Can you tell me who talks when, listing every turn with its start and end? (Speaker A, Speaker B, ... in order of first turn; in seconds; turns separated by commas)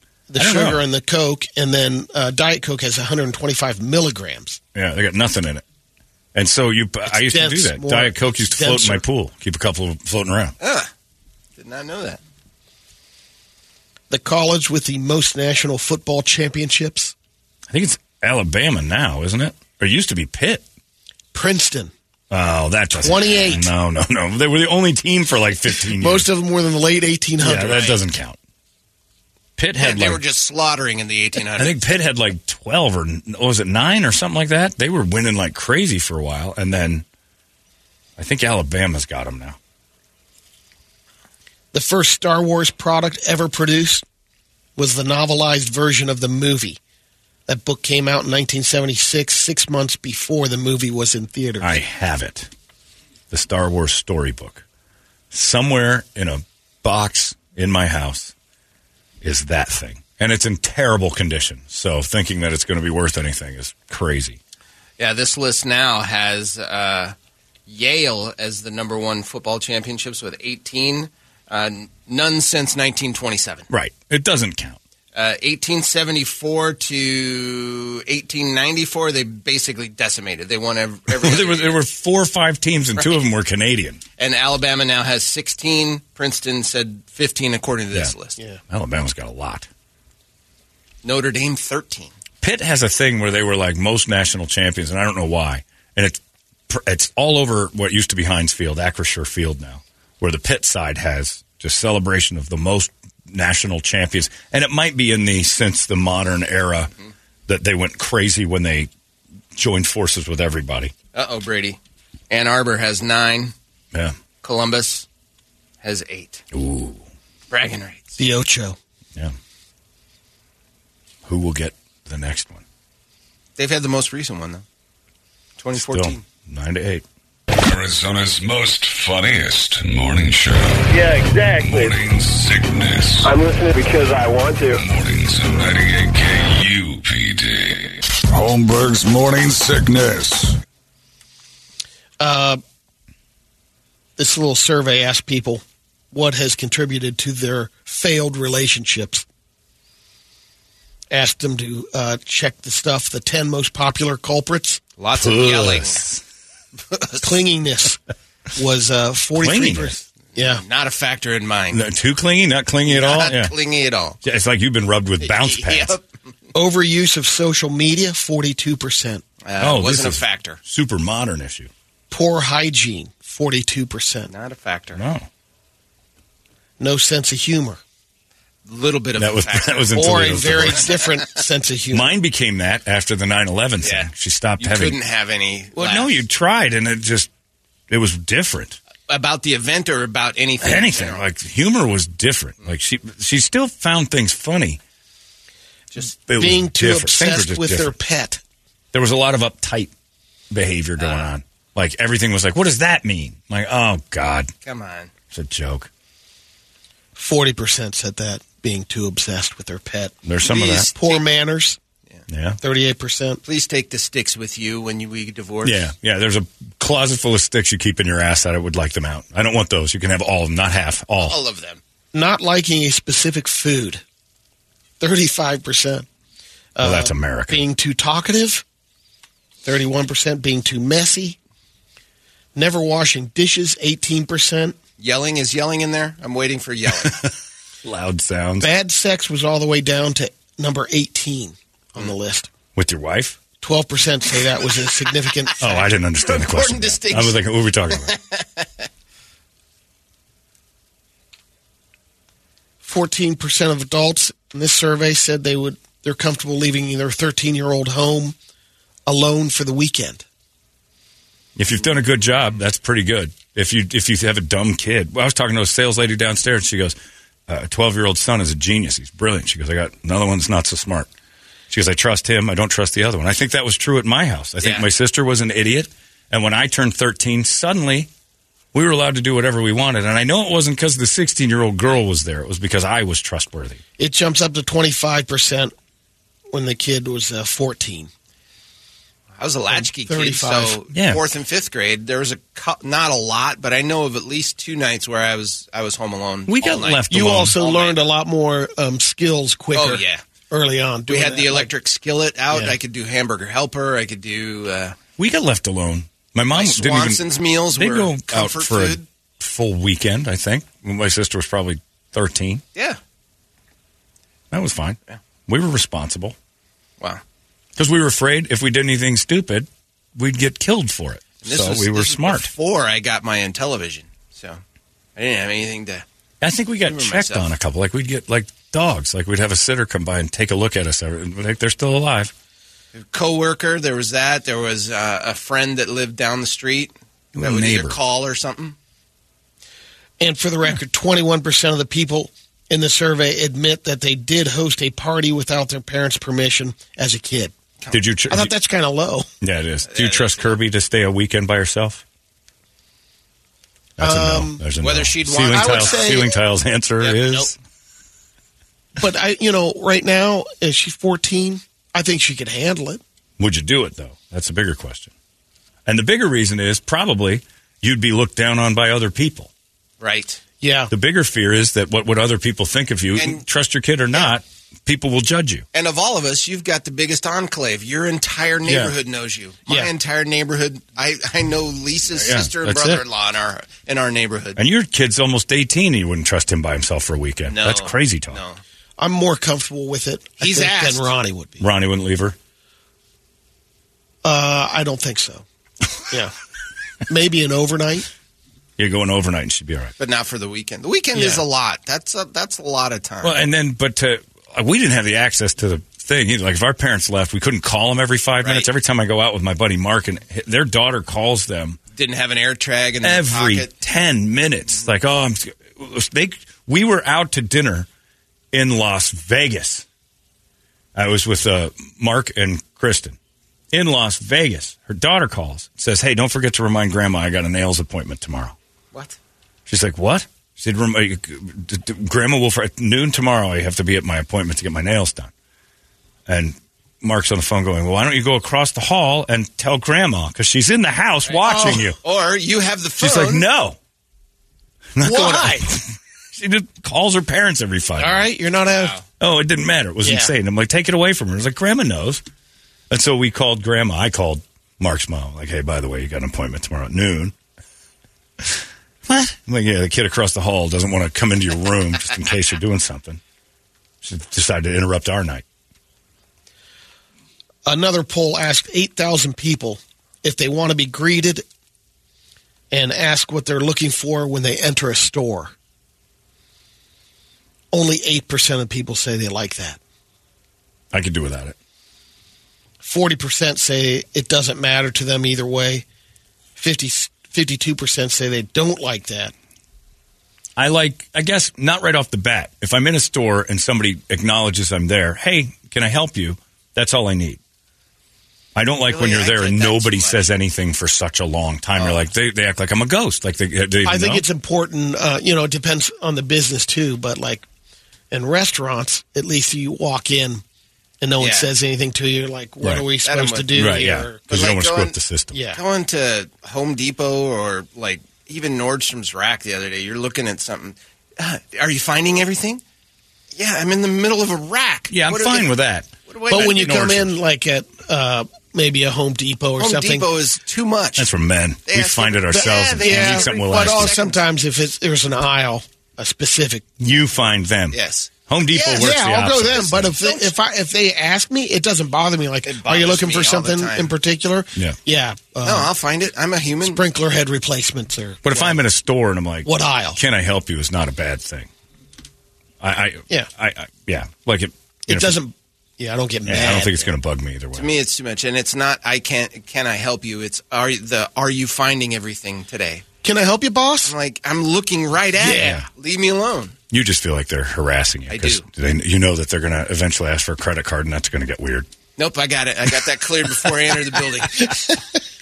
Speaker A: 0.3-4.6, Speaker B: 0.4-0.8, Speaker B: 4.7-5.6, Speaker B: 6.3-10.5, Speaker A: 7.1-9.0, Speaker C: 10.6-10.9, Speaker C: 11.6-12.2, Speaker A: 14.1-17.1, Speaker B: 17.7-20.6, Speaker A: 21.3-21.9, Speaker B: 22.3-26.3, Speaker A: 22.9-23.7, Speaker A: 25.9-27.8, Speaker B: 27.4-28.4, Speaker C: 27.6-28.0, Speaker B: 29.6-30.2, Speaker C: 29.8-31.8, Speaker B: 31.6-37.0, Speaker B: 38.2-39.6, Speaker A: 41.7-44.0, Speaker A: 44.8-46.8, Speaker A: 47.5-51.8, Speaker B: 51.6-52.5, Speaker B: 53.3-54.6, Speaker B: 55.3-58.3, Speaker B: 59.2-64.4, Speaker C: 65.0-67.1, Speaker C: 67.7-73.7, Speaker B: 73.7-74.8, Speaker C: 75.1-81.8, Speaker B: 81.1-84.0, Speaker C: 84.2-88.4, Speaker B: 88.7-89.7, Speaker C: 91.0-92.1, Speaker B: 92.4-106.9, Speaker B: 107.5-108.9, Speaker B: 109.5-110.9, Speaker C: 111.1-111.8, Speaker C: 112.3-113.5, Speaker C: 114.4-115.0, Speaker C: 115.8-116.4, Speaker B: 116.5-117.0, Speaker C: 117.5-118.1, Speaker A: 118.2-118.8, Speaker B: 121.2-122.6, Speaker C: 123.6-124.6, Speaker C: 125.6-126.2, Speaker B: 125.8-127.0, Speaker D: 127.6-130.9, Speaker E: 130.9-131.9, Speaker D: 131.6-133.3, Speaker E: 133.2-134.8, Speaker D: 134.7-140.6, Speaker A: 142.2-142.6, Speaker A: 144.2-149.2, Speaker A: 151.1-154.8, Speaker C: 155.0-156.1, Speaker B: 155.1-156.2, Speaker C: 156.9-157.4, Speaker A: 157.2-158.0, Speaker A: 158.5-160.6, Speaker B: 159.4-160.0, Speaker C: 160.3-161.8, Speaker B: 161.7-163.5, Speaker C: 162.9-164.2, Speaker B: 164.2-165.9, Speaker C: 165.2-166.0, Speaker A: 166.5-169.2, Speaker C: 169.4-170.6, Speaker B: 169.6-171.7, Speaker A: 172.1-174.3, Speaker C: 174.3-175.0, Speaker B: 174.9-175.3, Speaker A: 176.8-177.8, Speaker C: 178.7-181.3, Speaker B: 179.2-180.8, Speaker A: 179.9-182.1, Speaker B: 181.9-185.0, Speaker C: 183.8-186.2, Speaker B: 185.8-187.3, Speaker B: 187.9-188.8, Speaker C: 189.1-191.2, Speaker B: 190.6-194.8, Speaker B: 196.0-197.9, Speaker A: 196.3-198.4, Speaker B: 198.9-199.9, Speaker B: 200.5-204.5, Speaker C: 201.0-201.3, Speaker C: 204.6-205.1, Speaker B: 205.3-205.9, Speaker A: 207.2-210.1, Speaker B: 210.2-210.9, Speaker C: 210.5-211.2, Speaker A: 210.9-211.8, Speaker B: 212.3-212.6, Speaker A: 212.6-213.4, Speaker C: 213.4-215.8, Speaker B: 215.6-221.4, Speaker C: 221.2-221.8, Speaker A: 222.1-224.0, Speaker A: 225.0-226.1, Speaker A: 226.8-228.6, Speaker B: 226.8-227.6, Speaker A: 229.6-231.4, Speaker A: 232.5-234.8, Speaker C: 235.0-237.2, Speaker B: 237.8-238.7, Speaker A: 238.6-242.5, Speaker B: 242.7-243.4, Speaker A: 243.6-245.7, Speaker C: 245.5-248.7, Speaker B: 245.6-248.2, Speaker A: 252.8-258.4, Speaker A: 259.1-260.2, Speaker B: 261.6-267.0, Speaker B: 267.5-271.1, Speaker B: 271.7-278.1, Speaker C: 274.6-274.9, Speaker B: 278.7-283.8, Speaker A: 284.0-285.7, Speaker A: 286.5-288.1, Speaker C: 289.4-298.0, Speaker A: 289.7-290.8, Speaker B: 290.9-291.2, Speaker B: 296.5-297.5, Speaker A: 297.1-301.7, Speaker C: 299.7-300.2, Speaker C: 301.1-305.0, Speaker B: 305.2-307.2, Speaker C: 306.5-309.0, Speaker B: 307.7-312.6, Speaker B: 314.5-316.3, Speaker B: 317.8-322.5, Speaker C: 321.4-324.6, Speaker C: 325.1-326.0, Speaker B: 326.4-332.3, Speaker C: 326.9-327.5, Speaker C: 332.9-338.8, Speaker B: 337.3-338.0, Speaker A: 340.2-347.5, Speaker B: 347.9-348.5, Speaker A: 348.3-349.3, Speaker B: 349.4-352.0, Speaker C: 349.9-350.6, Speaker B: 354.0-357.5, Speaker A: 354.0-354.6, Speaker C: 354.8-356.3, Speaker A: 355.5-356.3, Speaker C: 357.0-357.5, Speaker A: 359.0-363.0, Speaker B: 363.4-365.1, Speaker B: 365.9-369.5, Speaker C: 370.0-370.4, Speaker A: 370.6-370.9, Speaker B: 370.9-375.6, Speaker C: 373.1-373.4, Speaker C: 375.7-384.6, Speaker B: 378.6-378.9, Speaker B: 382.2-383.0, Speaker B: 384.6-388.4, Speaker C: 387.5-388.6, Speaker A: 389.0-391.6, Speaker C: 390.4-391.1, Speaker B: 391.6-392.4, Speaker A: 394.2-395.4, Speaker A: 396.1-396.3, Speaker A: 397.1-398.1, Speaker B: 398.8-399.9, Speaker C: 400.0-403.4, Speaker A: 401.1-401.4, Speaker B: 403.2-411.8, Speaker C: 408.4-408.7, Speaker C: 411.9-413.7, Speaker B: 413.0-417.9, Speaker B: 418.5-419.8, Speaker B: 420.9-423.2, Speaker B: 423.7-428.6, Speaker B: 429.7-435.3, Speaker B: 436.3-442.0, Speaker C: 441.3-443.4, Speaker A: 441.5-441.8, Speaker B: 443.0-443.8, Speaker B: 444.9-448.2, Speaker A: 445.0-445.7, Speaker A: 448.0-448.9, Speaker C: 448.7-449.0, Speaker B: 449.2-452.2, Speaker A: 450.0-450.3, Speaker B: 452.9-457.3, Speaker B: 458.4-463.2, Speaker B: 464.0-465.4, Speaker A: 467.6-471.4, Speaker A: 472.7-475.5, Speaker A: 477.7-479.8, Speaker B: 480.9-481.6, Speaker A: 482.8-485.8, Speaker A: 486.6-489.3, Speaker B: 490.6-497.4, Speaker B: 498.5-504.2, Speaker C: 498.9-500.3, Speaker A: 503.8-507.4, Speaker A: 508.1-510.4, Speaker A: 511.0-514.2, Speaker C: 511.2-511.5, Speaker C: 513.0-515.0, Speaker B: 513.5-515.4, Speaker A: 515.3-515.6, Speaker C: 515.5-522.6, Speaker C: 523.3-525.5, Speaker B: 524.9-527.1, Speaker C: 526.1-526.7, Speaker A: 526.3-530.1, Speaker C: 529.6-531.1, Speaker B: 531.0-533.9, Speaker C: 531.7-534.2, Speaker A: 532.3-536.6, Speaker B: 536.8-539.9, Speaker C: 537.7-538.9, Speaker A: 538.7-545.7, Speaker C: 539.8-540.3, Speaker C: 542.5-543.9, Speaker C: 545.4-546.8, Speaker A: 546.6-548.6, Speaker B: 548.2-551.5, Speaker A: 549.4-550.0, Speaker B: 552.6-555.2, Speaker A: 554.9-556.9, Speaker B: 556.2-557.7, Speaker C: 557.5-562.8, Speaker A: 563.0-563.9, Speaker C: 563.8-566.5, Speaker A: 565.2-565.6, Speaker B: 566.7-571.7, Speaker C: 568.1-568.4, Speaker C: 572.0-574.6